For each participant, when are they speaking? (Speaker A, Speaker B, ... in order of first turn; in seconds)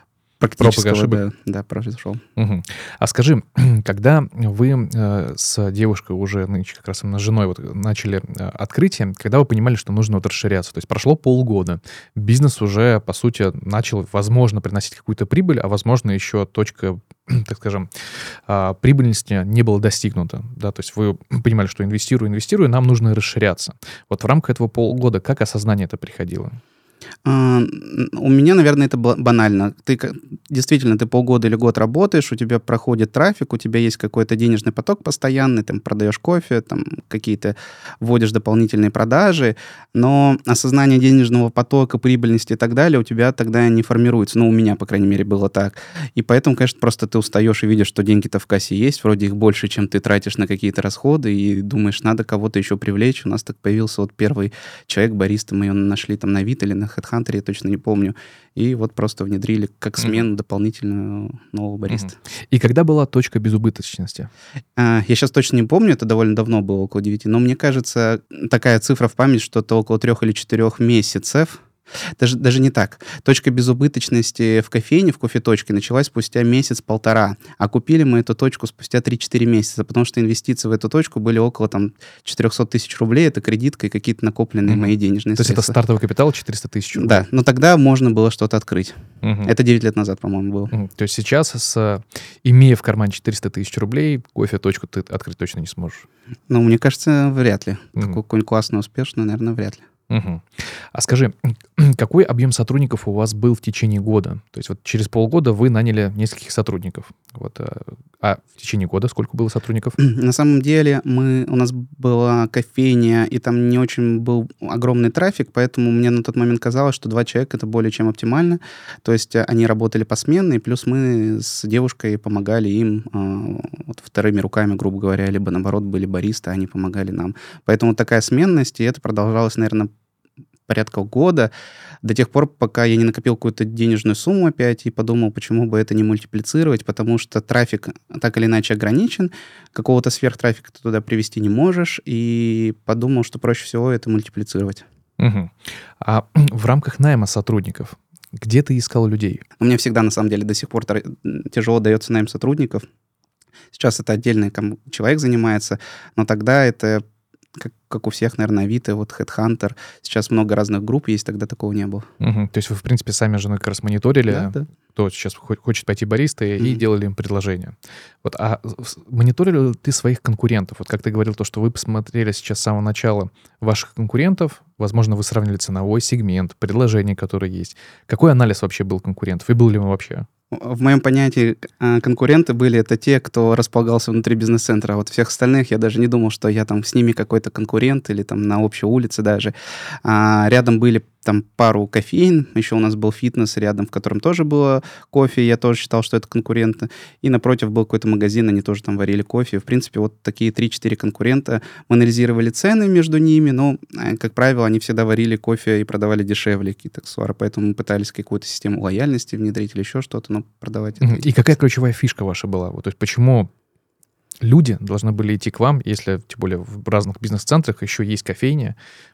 Speaker A: 0.4-2.2, 27.2-62.1, 64.8-71.6, 72.2-85.8, 87.0-90.7, 96.5-99.8, 110.0-129.9, 130.7-131.5, 132.0-144.8, 149.6-152.8, 153.7-157.0, 157.6-162.1, 164.3-164.6, 180.5-189.5, 190.0-211.2
Speaker B: 0.6-1.2, 2.4-17.9, 18.4-26.6, 60.0-60.2, 61.9-64.3, 84.7-87.2, 89.2-89.5, 90.7-96.0, 100.1-110.0, 145.2-149.4, 162.2-180.3, 211.0-213.5, 214.4-218.8